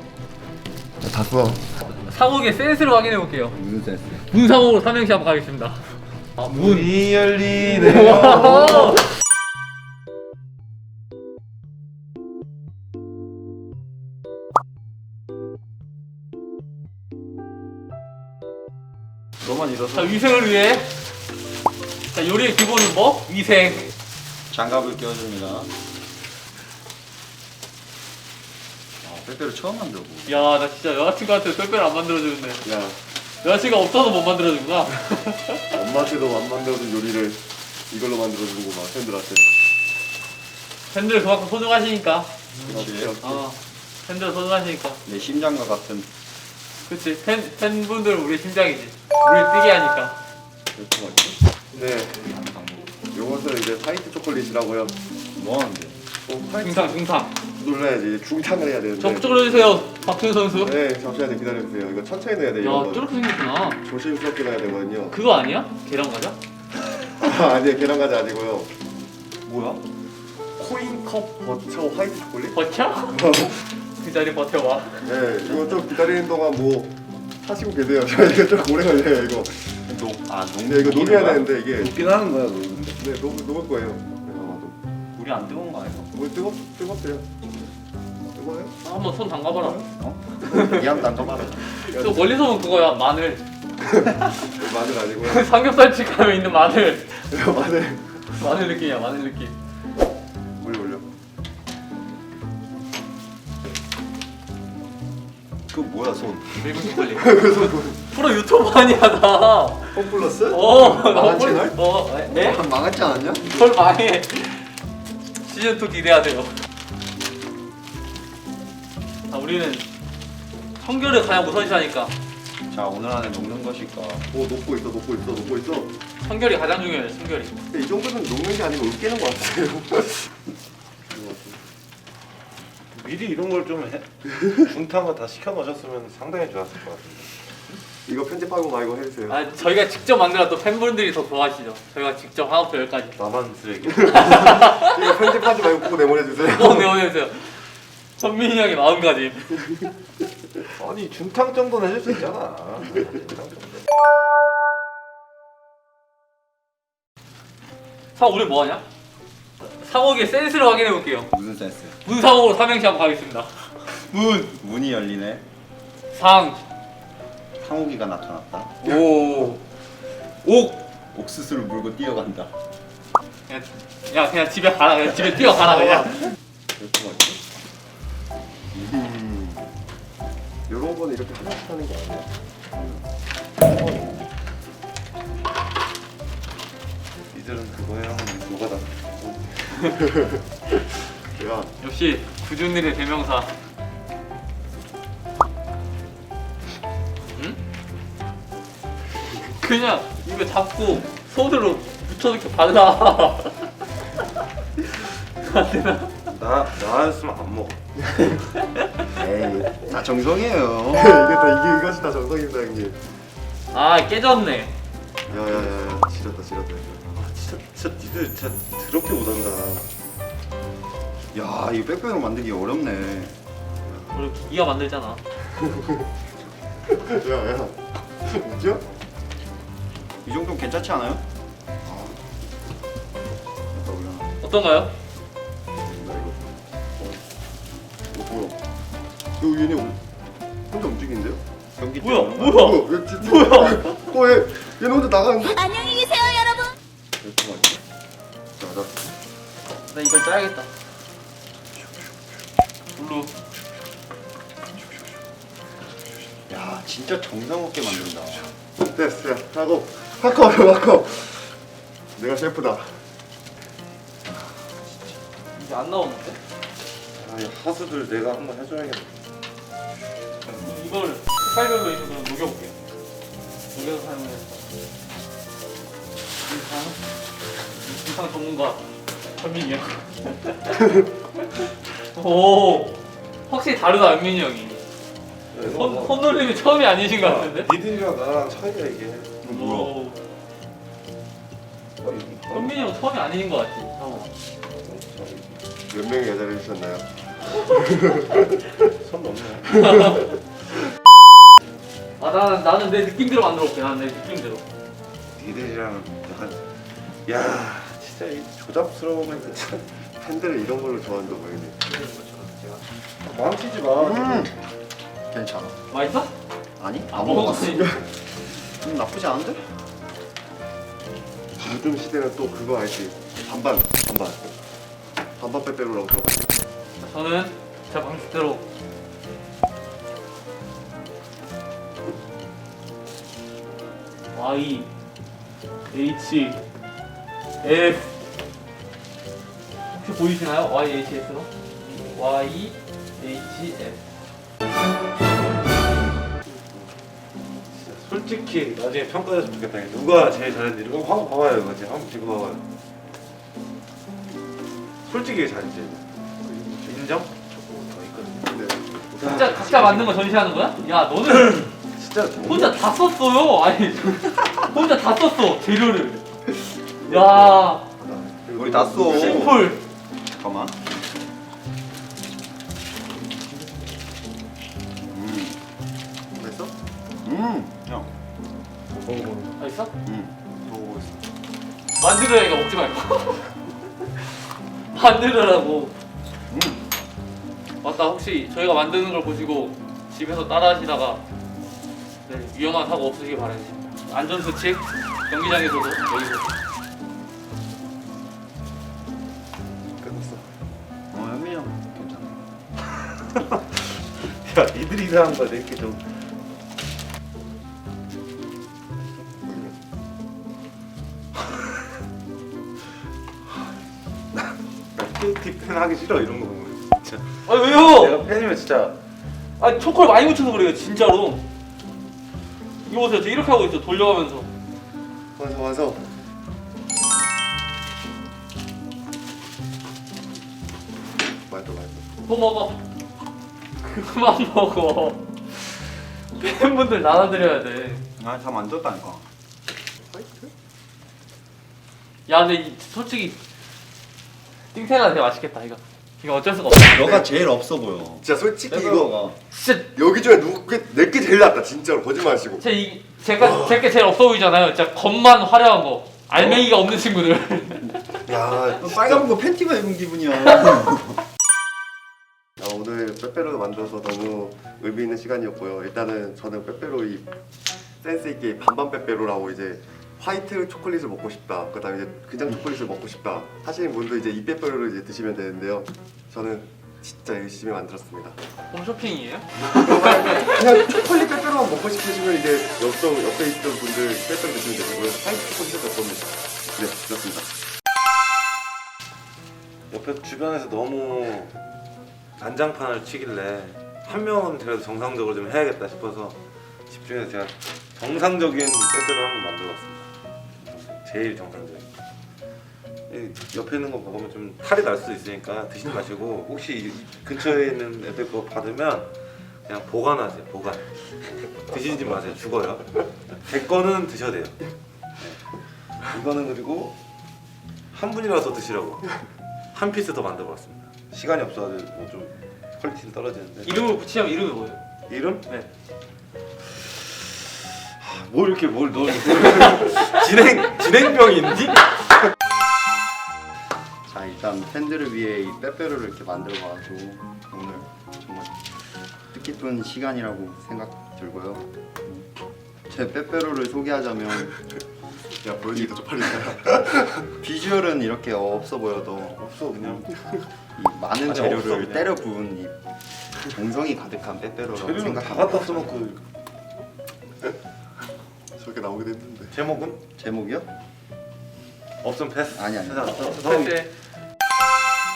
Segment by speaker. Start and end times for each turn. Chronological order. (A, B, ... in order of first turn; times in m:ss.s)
0:01.0-0:01.7 A
0:01.9-0:03.6 B
0:03.5-0:04.2 C
0:04.1-0:05.8 B
0:06.4-0:09.0 D
0:08.1-0:09.0 B
0:19.4-0:20.2 C
0:19.9-0:21.0 B
0:22.1-0:23.9 B
0:24.5-0:25.7 C
0:29.0-0:30.4 C
0:30.3-0:32.6 B
0:32.6-0:33.0 A
0:33.4-0:35.6 B
0:35.7-0:39.5 A
0:40.9-0:42.3 B
0:42.6-0:43.4 A
0:42.7-0:43.1 C
0:43.2-0:45.0 B
0:45.1-0:46.1 C
0:46.9-0:50.2 B
0:50.8-0:52.3 A
0:52.2-0:52.9 C
0:53.1-0:55.0 A
0:55.4-0:56.0 C
0:56.3-0:57.0 A
0:56.6-0:57.3 B
0:57.6-0:59.8 A
0:59.0-1:00.8 B
1:00.5-1:03.1 A
1:02.6-1:03.8 B
1:03.8-1:05.2 A
1:05.1-1:06.4 B
1:07.0-1:08.7 A
1:09.5-1:09.8 C
1:10.6-1:12.6 A
1:12.5-1:15.1 B
1:13.1-1:13.6 A
1:15.0-1:19.9 A
1:19.9-1:21.5 C
1:20.7-1:22.0 A
1:21.8-1:23.0 D
1:23.0-1:24.8 A
1:25.2-1:26.1 C
1:26.1-1:27.6 A
1:28.3-1:28.8 A
1:28.8-1:29.9 B
1:29.7-1:31.6 C
1:30.4-1:31.0 B
1:31.7-1:33.4 B
1:31.9-1:32.4 A
1:34.0-1:35.5 A
1:35.2-1:37.3 B
1:37.3-1:38.2 A
1:38.3-1:39.6 B
1:40.6-1:41.0 A
1:45.7-1:46.6 C
1:46.6-1:52.6 B
1:47.0-1:48.0 A
1:49.9-1:51.6 C
1:50.5-1:51.8 A
1:52.3-1:53.6 C
1:53.4-1:54.8 B
1:55.4-1:56.6 B
1:59.3-1:59.9 B
2:00.8-2:02.1 B
2:02.7-2:04.3 C
2:04.3-2:05.9 A
2:06.2-2:07.6 B
2:07.7-2:10.3 A
2:11.1-2:11.6 A
2:12.9-2:17.4 D
2:18.1-2:19.4 A
2:19.3-2:23.2 B
2:23.2-2:24.6 D
2:24.0-2:26.9 A
2:24.1-2:25.1 B
2:26.4-2:29.9 B
2:30.8-2:33.7 D
2:38.2-2:38.8 B
2:39.6-2:41.3 B
2:41.3-2:42.0 C
2:42.0-2:43.7 B
2:43.9-2:45.4 C
2:46.1-2:46.6 B
2:47.6-2:49.0 C
2:49.0-2:49.5 B
2:50.4-2:52.5 C
2:53.5-2:56.3 B
2:56.8-2:57.4 A
2:58.9-2:59.6 A
3:00.7-3:02.3 A
3:02.7-3:03.0 C
3:03.6-3:04.1 A
3:07.3-3:09.6 D
3:09.9-3:10.4 A
3:11.4-3:11.7 A
3:11.8-3:13.5 B
3:19.6-3:23.6 B
3:25.4-3:26.2 B
3:26.3-3:27.8 D
3:29.1-3:31.2 C
3:30.9-3:33.0 A
3:33.7-3:34.7 B
3:35.3-3:37.0 A
3:35.3-3:35.7 C
3:37.1-3:39.9 D
3:41.3-3:43.4 C
3:44.1-3:45.2 B
3:45.6-3:46.0 A
3:46.9-3:48.8 A
3:50.2-3:51.2 C
3:53.7-3:54.3 C
3:54.4-3:54.9 B
3:55.9-3:56.5 A
3:58.1-3:58.6 A
3:59.4-4:00.0 A
4:00.7-4:01.4 A
4:01.8-4:02.7 C
4:02.0-4:04.1 B
4:02.5-4:06.5 A
4:07.2-4:07.8 A
4:08.6-4:09.0 A
4:09.9-4:10.7 B
4:12.9-4:13.3 B
4:16.5-4:18.5 C
4:18.8-4:21.5 A
4:22.2-4:23.0 A
4:25.5-4:26.4 B
4:27.2-4:29.1 D
4:30.5-4:32.8 B
4:33.7-4:34.7 B
4:36.4-4:37.0 B
4:37.8-4:44.8 B
4:45.5-4:46.5 D
4:45.6-4:47.7 B
4:47.1-4:49.4 D
4:49.4-4:50.0 C
4:49.4-4:50.2 B
4:52.0-4:52.8 D
4:52.5-4:54.3 B
4:54.8-4:55.6 D
4:55.9-4:58.8 A
4:58.9-4:59.9 D
5:02.2-5:04.6 B
5:05.4-5:06.7 D
5:07.3-5:10.0 D
5:10.2-5:11.8 A
5:11.9-5:12.8 B
5:13.2-5:14.5 D
5:14.0-5:14.5 C
5:15.3-5:15.8 C
5:15.9-5:16.3 B
5:16.8-5:17.9 C
5:17.1-5:17.9 B
5:17.2-5:18.0 A
5:18.6-5:19.7 C
5:21.6-5:24.5 A
5:25.4-5:26.6 A
5:27.0-5:28.7 B
5:34.3-5:34.9 B
5:35.9-5:36.6 B
5:37.6-5:38.2 B
5:40.0-5:44.0 B
5:47.7-5:52.6 D
5:55.1-5:56.0 D
5:56.4-5:56.9 A
5:56.9-5:58.6 D
5:56.9-5:57.3 B
5:58.5-5:59.9 A
5:59.2-6:00.2 D
5:59.2-6:01.7 B
6:01.9-6:02.8 D
6:02.4-6:06.2 B
6:07.0-6:07.9 B
6:07.0-6:09.7 A
6:08.6-6:09.7 C
6:09.0-6:09.8 B
6:10.3-6:10.8 C
6:13.2-6:13.7 A
6:15.1-6:15.6 C
6:16.3-6:16.7 A
6:17.2-6:18.1 C
6:19.1-6:19.4 D
6:19.6-6:19.9 B
6:20.0-6:20.3 C
6:20.6-6:21.2 A
6:22.0-6:23.5 B
6:24.1-6:24.4 B
6:24.9-6:25.9 B
6:26.5-6:26.8 C
6:27.8-6:31.2 B
6:32.3-6:36.6 B
6:40.0-6:40.5 D
6:41.1-6:42.4 C
6:43.2-6:46.0 D
6:49.2-6:49.7 D
6:54.3-6:59.0 D
6:57.4-6:58.2 B
6:59.6-7:01.4 B
7:02.9-7:04.5 B
7:05.4-7:06.1 A
7:11.5-7:12.0 A
7:12.3-7:12.8 B
7:13.8-7:18.0 B
7:18.2-7:19.2 C
7:20.0-7:20.5 A
7:22.3-7:23.4 B
7:24.7-7:27.2 B
7:26.9-7:29.4 C
7:27.0-7:27.2 A
7:28.2-7:29.2 A
7:29.5-7:29.9 B
7:29.9-7:32.6 A
7:32.6-7:38.1 B
7:38.3-7:39.3 D
7:38.5-7:38.8 A
7:38.8-7:41.2 C
7:42.6-7:47.3 A
7:48.0-7:58.4 A
7:58.7-8:00.5 B
7:59.6-8:07.5 A
8:09.9-8:11.6 D
8:12.4-8:20.1 D
8:20.6-8:21.9 D
8:23.1-8:29.1 D
8:29.7-8:30.8 D
8:31.6-8:34.6 D
8:36.0-8:37.0 D
8:37.9-8:39.2 D
8:39.7-8:43.8 D
8:43.6-8:44.8 B
8:45.1-8:45.5 D
8:46.8-8:47.0 D
8:48.0-8:52.1 D
8:54.1-8:58.6 C
8:59.3-9:02.3 C
9:02.9-9:04.5 C
9:05.4-9:07.3 A
9:07.4-9:10.1 C
9:09.3-9:10.1 D
9:10.8-9:12.7 C
9:11.2-9:12.1 D
9:13.5-9:15.9 C
9:14.7-9:16.2 D
9:18.6-9:19.6 A
9:19.5-9:20.0 D
9:20.2-9:20.7 C
9:22.0-9:23.8 D
9:22.5-9:23.5 C
9:23.2-9:23.9 B